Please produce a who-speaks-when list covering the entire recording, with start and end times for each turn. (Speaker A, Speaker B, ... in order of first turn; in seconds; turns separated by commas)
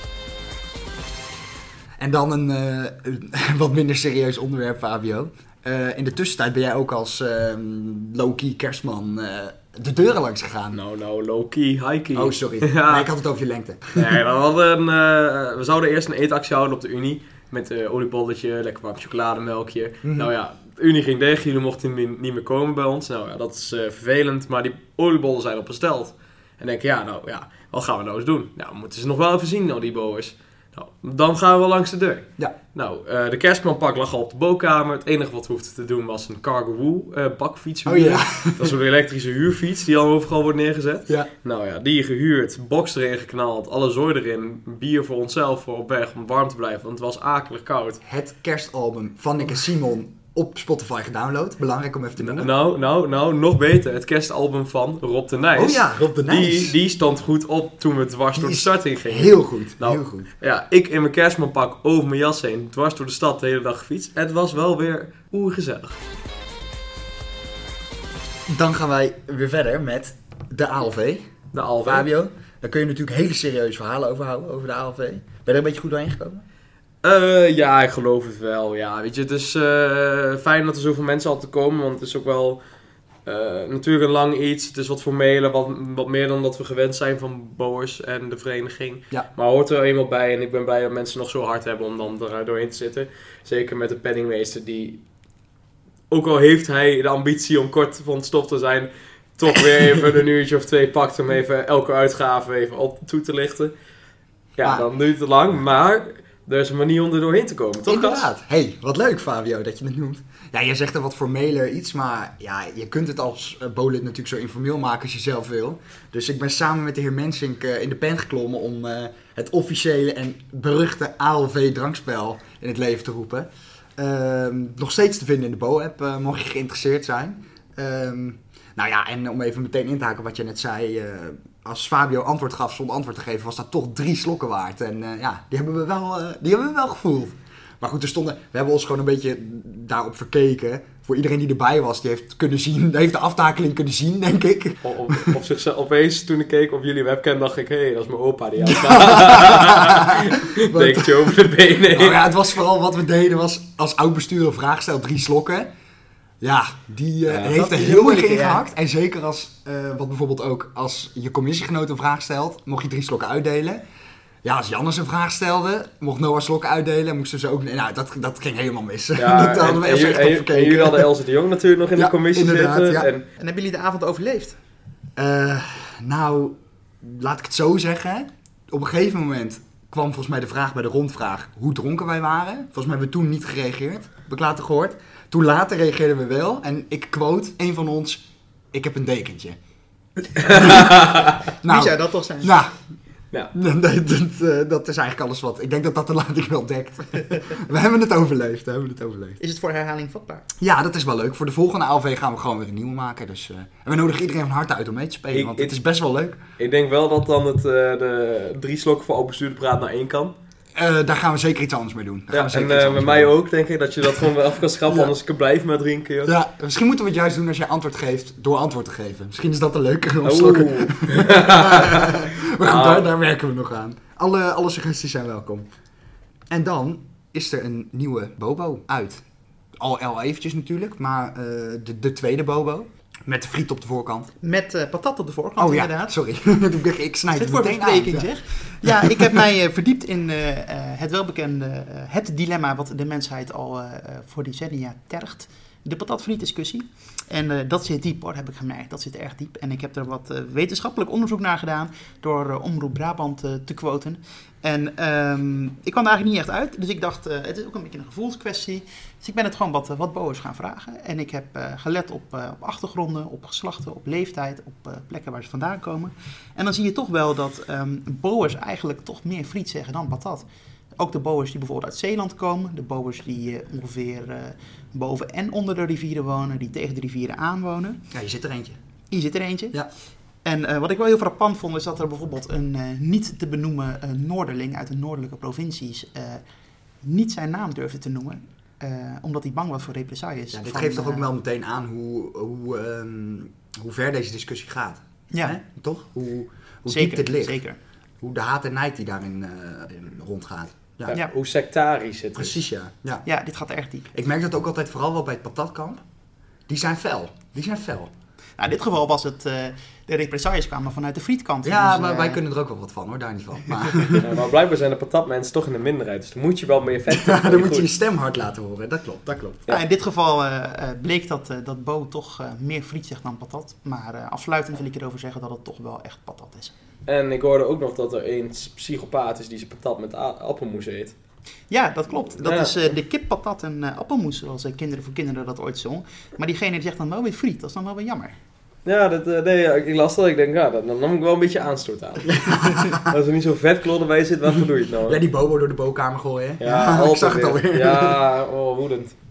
Speaker A: 2.0-10.8, Speaker B: 10.7-13.1, Speaker A: 12.2-14.2, Speaker B: 13.9-48.0, Speaker A: 20.0-20.3, Speaker A: 37.9-38.8, Speaker A: 48.0-52.5, Speaker B: 52.2-66.0, Speaker A: 55.5-56.8, Speaker A: 58.4-60.3, Speaker A: 68.5-71.3, Speaker B: 71.5-72.1, Speaker A: 71.8-76.4, Speaker B: 77.0-82.6, Speaker B: 83.2-95.0, Speaker B: 96.1-103.7, Speaker B: 104.6-108.3, Speaker A: 104.6-104.9, Speaker A: 107.8-145.3, Speaker B: 144.8-152.3, Speaker A: 148.6-155.7, Speaker A: 156.4-163.8, Speaker B: 157.3-158.6, Speaker A: 164.4-171.1, Speaker B: 169.2-173.3, Speaker A: 172.0-173.1, Speaker C: 173.4-174.6, Speaker A: 175.2-189.6, Speaker A: 190.4-191.0, Speaker B: 190.4-191.3, Speaker A: 191.6-192.9, Speaker C: 191.7-192.5, Speaker A: 193.5-199.4, Speaker C: 199.4-200.4, Speaker A: 200.6-206.4, Speaker B: 205.3-205.8, Speaker B: 206.6-210.3, Speaker A: 210.8-213.4, Speaker B: 212.3-216.3, Speaker A: 214.9-215.1, Speaker A: 216.2-225.7, Speaker B: 220.2-223.1, Speaker A: 226.5-229.2, Speaker A: 229.8-234.3, Speaker C: 234.4-236.1, Speaker A: 235.6-239.3, Speaker C: 237.3-278.0, Speaker A: 278.1-278.8, Speaker C: 279.1-279.9, Speaker C: 280.4-286.4, Speaker C: 287.0-291.3, Speaker A: 290.5-297.6, Speaker C: 295.3-295.6, Speaker C: 296.9-297.8, Speaker A: 298.2-301.1, Speaker B: 301.1-302.6, Speaker A: 302.4-303.3, Speaker C: 303.2-304.1, Speaker A: 304.1-306.0, Speaker A: 306.7-308.1, Speaker C: 308.6-312.4, Speaker A: 311.6-314.3, Speaker B: 314.1-317.9, Speaker A: 317.1-319.7, Speaker C: 319.7-326.7, Speaker B: 327.1-331.1, Speaker C: 331.7-338.4, Speaker B: 332.4-332.8, Speaker B: 338.9-345.2, Speaker A: 342.3-343.1, Speaker A: 345.1-348.2, Speaker B: 346.6-349.1